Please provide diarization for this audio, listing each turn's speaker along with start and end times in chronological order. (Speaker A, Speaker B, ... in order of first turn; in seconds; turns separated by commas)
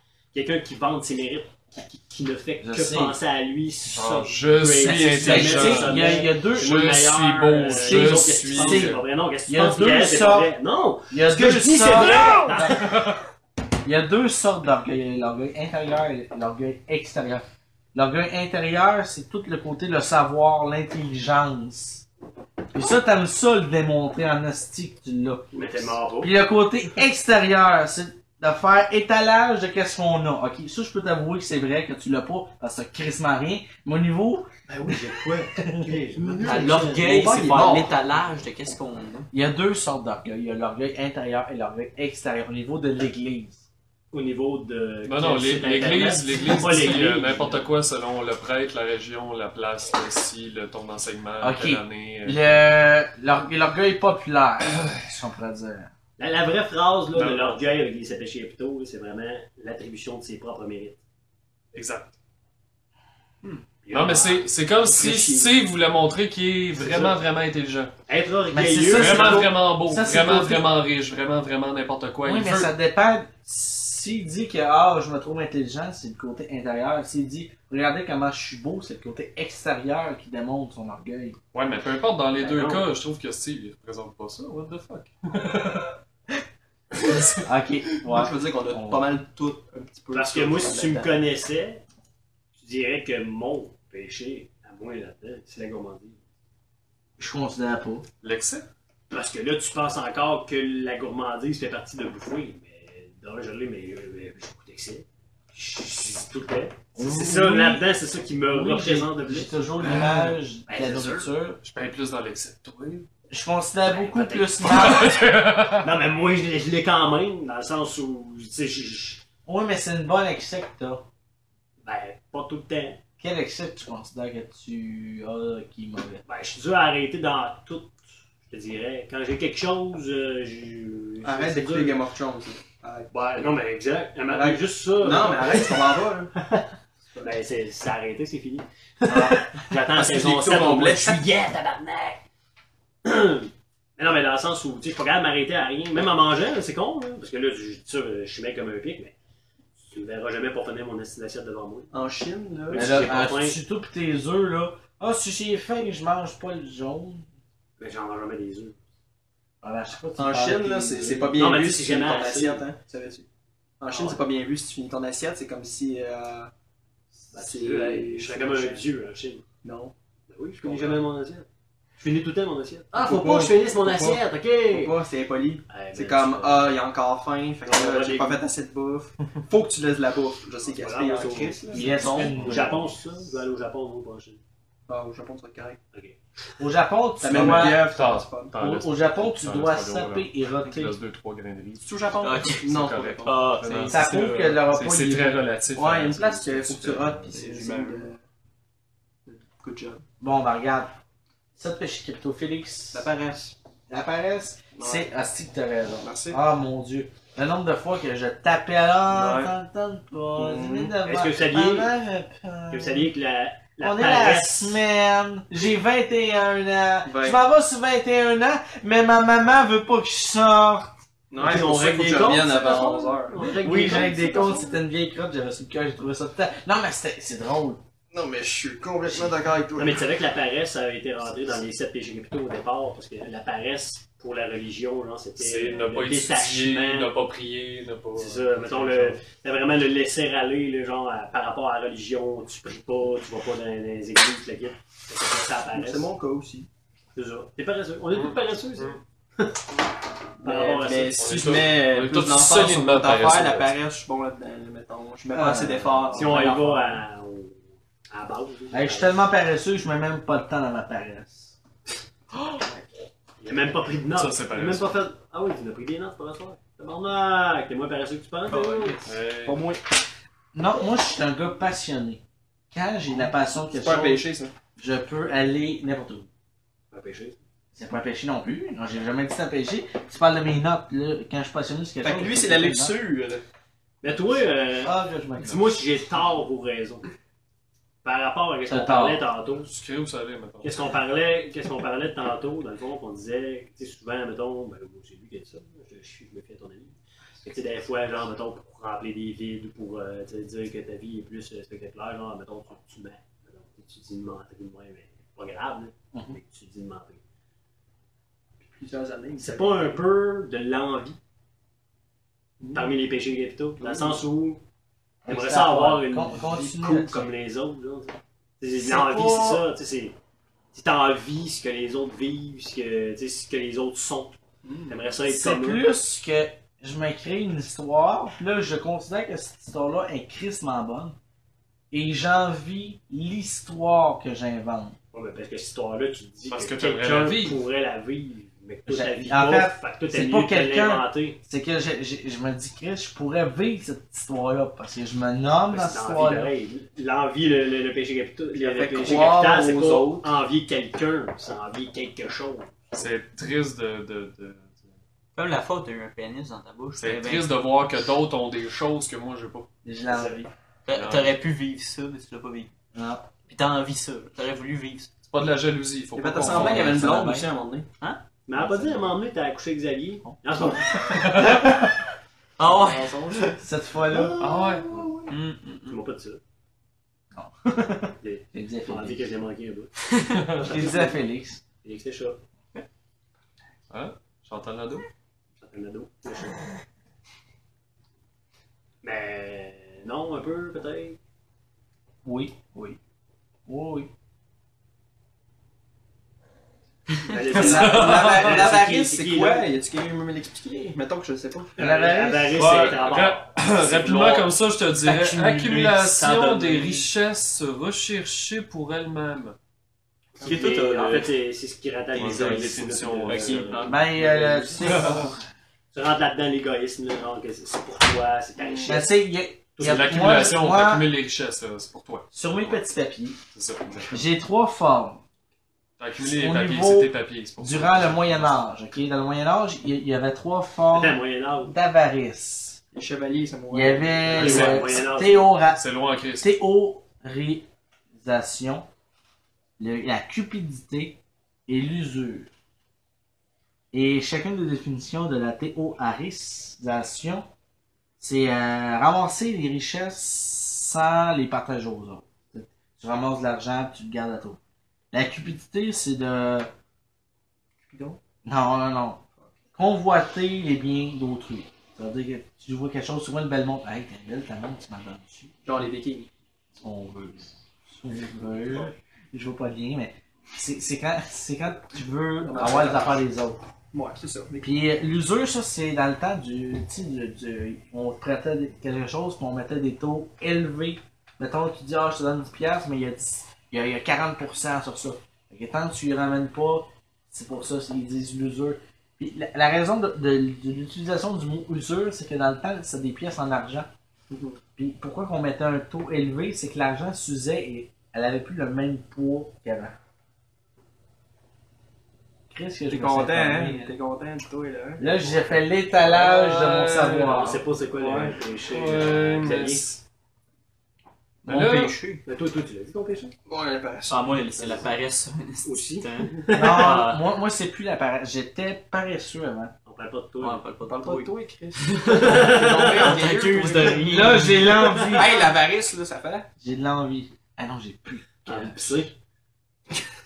Speaker A: 0.3-13.1, Speaker B: 2.6-3.2, Speaker C: 3.8-9.0, Speaker B: 4.8-6.9, Speaker B: 7.7-10.5, Speaker B: 11.1-13.0, Speaker C: 12.1-13.2, Speaker B: 13.8-22.0, Speaker B: 22.7-36.0, Speaker A: 25.5-26.3, Speaker A: 34.7-37.1, Speaker D: 36.1-38.0, Speaker E: 36.4-39.3, Speaker B: 39.3-43.6, Speaker A: 44.1-47.7, Speaker C: 45.0-52.6, Speaker B: 51.4-55.9, Speaker A: 56.2-61.0, Speaker C: 57.1-57.6, Speaker C: 61.7-62.1, Speaker A: 63.8-64.5, Speaker C: 63.9-67.9, Speaker D: 64.9-65.5, Speaker A: 66.8-67.1, Speaker A: 68.1-69.5, Speaker B: 68.5-70.7, Speaker C: 68.8-72.7, Speaker B: 72.2-81.4, Speaker C: 81.5-85.9, Speaker A: 82.4-82.8, Speaker C: 87.0-87.5, Speaker B: 87.4-89.1, Speaker D: 88.0-91.2, Speaker A: 90.1-91.8, Speaker A: 92.5-96.2, Speaker B: 97.2-98.0, Speaker C: 98.2-98.7, Speaker A: 99.1-111.3, Speaker B: 106.9-107.9, Speaker B: 108.4-111.6, Speaker C: 111.6-113.1, Speaker B: 113.3-115.2, Speaker A: 113.8-119.2, Speaker C: 114.6-115.9, Speaker B: 119.5-121.0, Speaker A: 121.8-123.0, Speaker B: 123.2-126.2, Speaker A: 126.2-128.0, Speaker A: 128.5-132.0, Speaker D: 131.2-133.1, Speaker A: 133.1-136.7, Speaker D: 134.3-136.3, Speaker A: 137.2-142.2, Speaker D: 139.9-141.2, Speaker A: 143.0-149.1, Speaker A: 149.8-151.9, Speaker D: 151.9-153.2, Speaker A: 152.7-153.6, Speaker B: 152.7-157.2, Speaker A: 157.8-158.8, Speaker B: 159.6-161.3, Speaker D: 160.2-163.2, Speaker A: 161.4-162.7, Speaker D: 163.8-166.5, Speaker A: 163.9-164.2, Speaker D: 167.2-168.8, Speaker A: 167.3-169.4, Speaker D: 169.6-169.9, Speaker A: 170.3-171.4, Speaker C: 170.7-171.0, Speaker A: 172.0-175.0, Speaker D: 172.9-181.9, Speaker A: 175.7-176.8, Speaker A: 177.6-178.4, Speaker A: 180.7-184.4, Speaker B: 181.7-182.9, Speaker E: 181.8-182.6, Speaker D: 184.9-185.8, Speaker B: 186.6-187.9, Speaker D: 187.2-188.5, Speaker C: 187.3-197.4, Speaker B: 188.6-191.0, Speaker D: 191.8-193.4, Speaker E: 192.2-192.7, Speaker E: 193.2-194.2, Speaker B: 193.9-195.4, Speaker D: 195.7-198.2, Speaker E: 197.3-198.1, Speaker D: 199.2-200.0, Speaker B: 200.2-200.9, Speaker B: 201.6-203.1, Speaker D: 202.9-203.5, Speaker B: 203.9-213.1, Speaker D: 204.7-205.1, Speaker D: 206.0-206.4, Speaker C: 209.1-209.5, Speaker D: 210.3-210.9, Speaker A: 211.0-211.9, Speaker A: 212.7-214.8, Speaker B: 213.8-220.9, Speaker D: 217.0-217.4, Speaker D: 221.3-223.4, Speaker A: 221.4-224.7, Speaker B: 223.5-227.8, Speaker D: 228.1-230.1, Speaker A: 229.8-237.1, Speaker C: 235.4-239.2, Speaker A: 238.1-246.1, Speaker D: 245.7-246.7, Speaker A: 247.1-249.6, Speaker C: 248.1-249.0, Speaker A: 250.4-251.6, Speaker D: 250.4-257.0, Speaker C: 251.1-253.7, Speaker B: 255.3-256.3, Speaker A: 256.1-259.1, Speaker C: 256.1-256.4, Speaker B: 258.7-261.5, Speaker A: 263.4-269.1, Speaker C: 264.1-265.0, Speaker E: 268.5-269.0, Speaker C: 269.0-269.6, Speaker D: 269.4-269.8, Speaker B: 270.5-276.3, Speaker D: 273.7-274.5, Speaker A: 276.9-277.4, Speaker B: 277.7-283.0, Speaker D: 282.0-283.4, Speaker A: 284.0-287.1, Speaker B: 284.8-285.8, Speaker A: 288.0-289.7, Speaker B: 288.7-289.3, Speaker C: 289.5-290.9, Speaker A: 290.6-307.2, Speaker B: 306.1-306.4, Speaker D: 308.7-310.0, Speaker A: 309.4-311.2, Speaker D: 312.6-312.9, Speaker A: 312.7-314.6, Speaker D: 313.8-314.2, Speaker B: 315.2-317.3, Speaker A: 315.3-320.1, Speaker B: 318.7-319.6, Speaker A: 320.7-324.4, Speaker D: 324.6-325.0, Speaker A: 324.9-325.8, Speaker B: 325.2-331.2, Speaker B: 331.9-334.9, Speaker A: 335.1-341.4, Speaker C: 336.5-337.6, Speaker B: 338.9-346.5, Speaker A: 345.7-352.8, Speaker D: 348.5-350.3, Speaker B: 349.0-349.6, Speaker C: 352.9-354.9, Speaker E: 355.3-357.5, Speaker C: 356.9-359.7, Speaker B: 359.8-360.5, Speaker A: 360.1-360.4, Speaker E: 360.9-362.7, Speaker C: 360.9-361.3, Speaker B: 362.9-363.2, Speaker E: 363.5-365.1, Speaker C: 365.2-367.1, Speaker D: 366.1-367.9, Speaker B: 366.4-367.5, Speaker A: 368.5-371.2, Speaker C: 371.1-371.6, Speaker E: 372.6-373.5, Speaker D: 372.7-373.4, Speaker B: 373.5-374.4, Speaker D: 374.1-375.3, Speaker C: 374.4-374.8, Speaker E: 375.3-376.0, Speaker A: 375.9-376.4, Speaker B: 377.3-379.3, Speaker A: 378.2-381.1, Speaker C: 380.3-380.8, Speaker B: 380.6-381.6, Speaker A: 381.8-382.4, Speaker C: 383.9-385.1, Speaker A: 385.6-386.6, Speaker A: 389.0-391.2, Speaker B: 392.2-392.9, Speaker B: 393.7-394.1, Speaker A: 397.2-399.6, Speaker C: 397.5-398.7, Speaker D: 397.5-401.7, Speaker B: 397.6-398.8, Speaker B: 401.8-402.7, Speaker A: 401.8-404.5, Speaker E: 402.6-402.9, Speaker C: 402.7-409.6, Speaker E: 405.9-407.0, Speaker A: 406.5-406.9, Speaker A: 410.4-415.2, Speaker D: 410.4-411.3, Speaker C: 412.1-413.8, Speaker E: 413.2-414.0, Speaker B: 413.8-415.4, Speaker A: 415.9-419.1, Speaker D: 418.6-418.9, Speaker B: 418.8-421.1, Speaker A: 419.8-420.5, Speaker C: 419.8-422.8, Speaker B: 422.3-423.4, Speaker C: 423.5-424.3, Speaker B: 424.1-425.2, Speaker C: 426.0-428.6, Speaker B: 426.2-432.8, Speaker A: 430.9-431.7, Speaker D: 432.9-434.8, Speaker B: 433.7-435.8, Speaker A: 434.3-435.5, Speaker C: 434.3-435.1, Speaker C: 435.6-436.5, Speaker B: 436.4-437.7, Speaker B: 438.2-438.9, Speaker B: 439.8-442.5, Speaker B: 443.9-447.5, Speaker B: 448.2-454.6, Speaker B: 455.1-456.7, Speaker D: 457.8-458.2, Speaker B: 458.4-465.5, Speaker D: 465.6-466.3, Speaker B: 466.7-473.6, Speaker D: 472.4-473.2, Speaker D: 473.9-474.8, Speaker B: 474.6-493.9, Speaker D: 494.3-494.6, Speaker B: 494.8-499.9, Speaker B: 502.5-503.9, Speaker D: 502.9-505.6, Speaker B: 505.0-507.6, Speaker C: 505.9-507.6, Speaker A: 507.3-509.9, Speaker D: 508.0-508.4, Speaker C: 508.6-510.0, Speaker E: 511.4-512.2, Speaker C: 511.4-512.0, Speaker A: 512.2-513.3, Speaker D: 513.5-514.9, Speaker E: 514.1-517.2, Speaker A: 515.6-517.0, Speaker B: 516.5-519.7, Speaker A: 519.9-520.6, Speaker E: 520.4-524.8, Speaker D: 520.8-524.4, Speaker A: 522.0-523.2, Speaker B: 524.0-525.5, Speaker A: 524.7-525.2, Speaker D: 525.1-526.5, Speaker B: 526.6-529.1, Speaker A: 528.5-529.1